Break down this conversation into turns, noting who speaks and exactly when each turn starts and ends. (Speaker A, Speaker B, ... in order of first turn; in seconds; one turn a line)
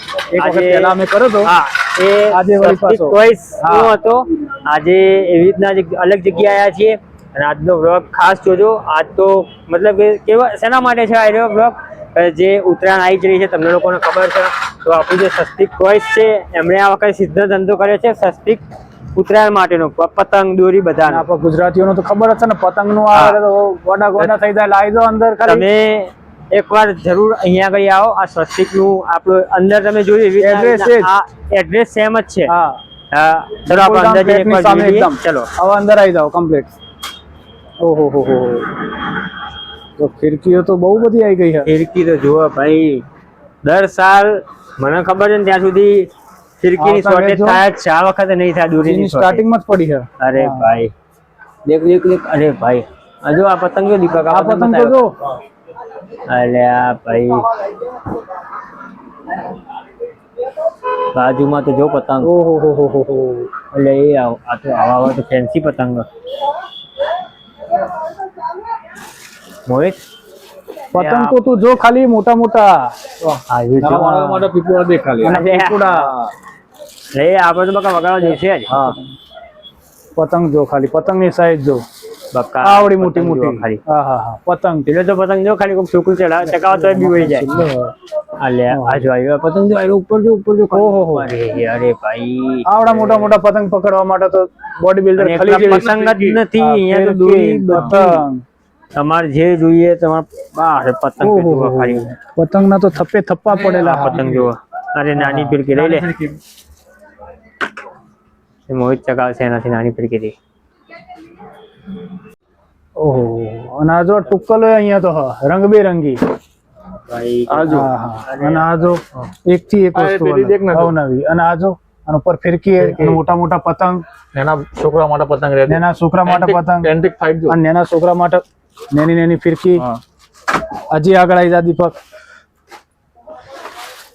Speaker A: 0.3-1.5
Speaker B: 0.4-18.6
Speaker A: 2.3-4.0
Speaker B: 19.1-21.2
Speaker A: 21.1-25.6
Speaker B: 23.1-23.4
Speaker B: 25.4-32.5
Speaker A: 30.4-31.1
Speaker A: 32.5-32.8
Speaker B: 33.1-35.5
Speaker A: 33.6-36.7
Speaker A: 37.8-39.0
Speaker A: 40.0-41.7
Speaker B: 41.6-43.0
Speaker B: 43.6-46.1
Speaker B: 46.6-49.4
Speaker A: 46.8-47.6
Speaker A: 48.8-50.7
Speaker B: 50.2-50.9
Speaker B: 51.6-55.0
Speaker A: 54.3-55.1
Speaker B: 56.3-57.5
Speaker B: 61.1-62.3
Speaker A: 62.2-63.5
Speaker B: 63.7-66.1
Speaker B: 69.7-70.0
Speaker A: 70.9-72.9
Speaker B: 70.9-71.3
Speaker B: 73.5-74.2
Speaker C: 73.8-76.3
Speaker A: 73.9-74.5
Speaker A: 75.2-76.1
Speaker B: 75.2-75.9
Speaker B: 77.1-78.7
Speaker A: 78.2-79.0
Speaker C: 78.7-79.0
Speaker A: 80.2-81.8
Speaker B: 82.3-83.8
Speaker A: 82.6-84.9
Speaker B: 84.9-87.5
Speaker A: 86.4-87.9
Speaker B: 88.4-93.4
Speaker A: 88.7-89.1
Speaker A: 90.7-91.3
Speaker A: 92.7-95.9
Speaker B: 95.2-98.1
Speaker C: 95.5-96.4
Speaker A: 96.5-98.4
Speaker C: 97.7-98.0
Speaker B: 98.9-102.1
Speaker A: 101.2-104.3
Speaker C: 103.5-104.5
Speaker B: 103.8-106.1
Speaker A: 105.2-105.6
Speaker C: 105.6-106.4
Speaker B: 108.7-110.3
Speaker A: 113.0-116.2
Speaker B: 117.1-118.8
Speaker C: 117.5-117.9
Speaker A: 117.7-124.0
Speaker C: 119.9-120.9
Speaker C: 122.8-123.2
Speaker C: 124.3-127.5
Speaker A: 125.7-126.9
Speaker A: 127.5-129.8
Speaker A: 130.9-132.0